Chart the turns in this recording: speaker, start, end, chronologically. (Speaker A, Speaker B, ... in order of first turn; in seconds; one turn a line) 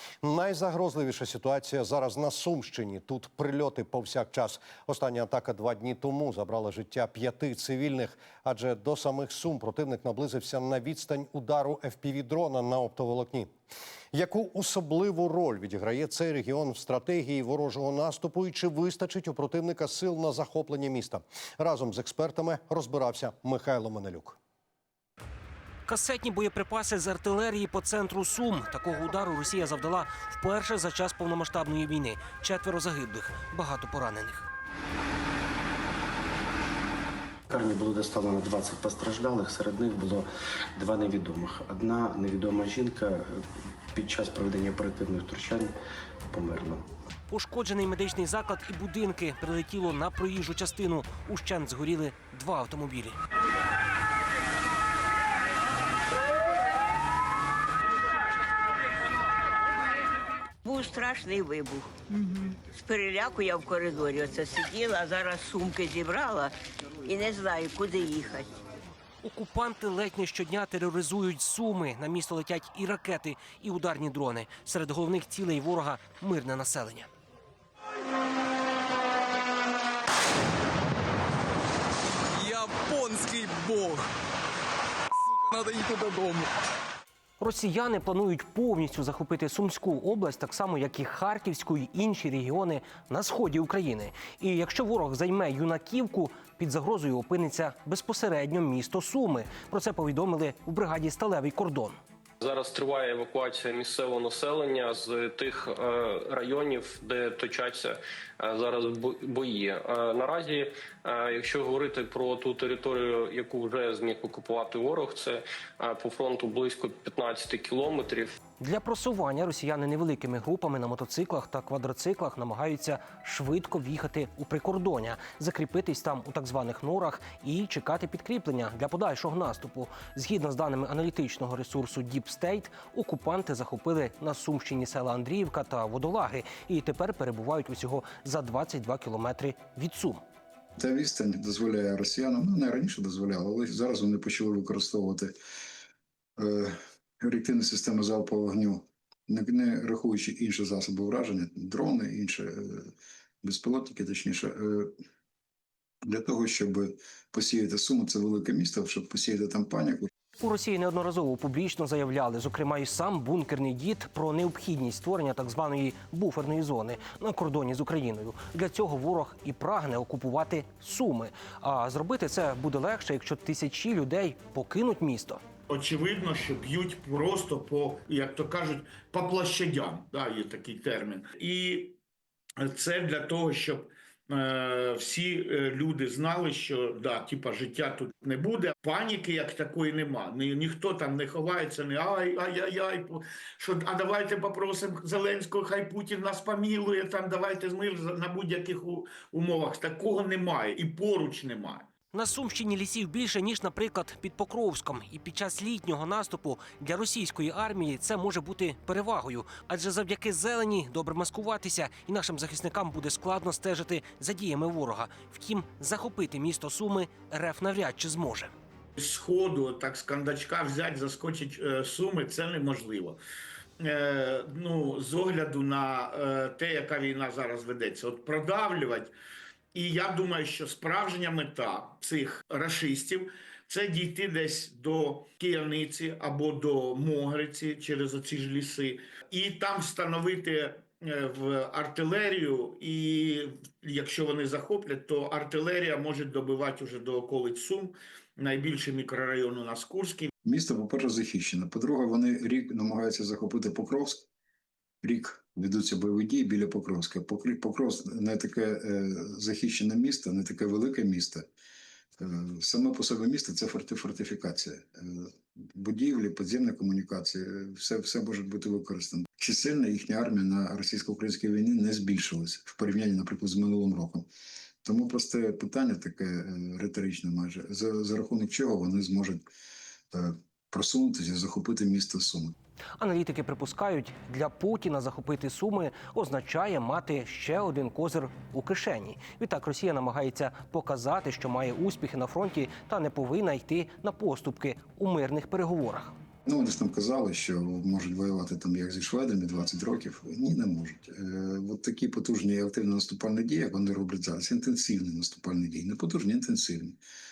Speaker A: 0.2-13.5
Speaker A: 14.1-24.4
Speaker B: 25.9-34.5
Speaker C: 37.5-45.8
Speaker C: 46.3-46.9
Speaker B: 47.3-53.2
Speaker D: 60.6-68.5
Speaker B: 69.2-77.1
Speaker E: 82.3-84.0
Speaker E: 85.3-86.5
Speaker B: 87.4-102.0
Speaker F: 102.4-118.4
Speaker B: 118.6-140.2
Speaker G: 140.8-145.3
Speaker G: 146.4-152.9
Speaker G: 153.4-154.9
Speaker G: 156.1-160.1
Speaker B: 160.4-175.4
Speaker H: 175.7-182.0
Speaker H: 182.6-201.9
Speaker B: 202.1-218.5
Speaker H: 219.0-223.2
Speaker H: 223.8-229.1
Speaker H: 229.8-250.3
Speaker G: 250.4-254.3
Speaker G: 255.0-261.5
Speaker G: 262.2-274.3
Speaker G: 274.8-279.4
Speaker G: 280.1-282.6
Speaker B: 283.0-296.1
Speaker G: 296.5-307.0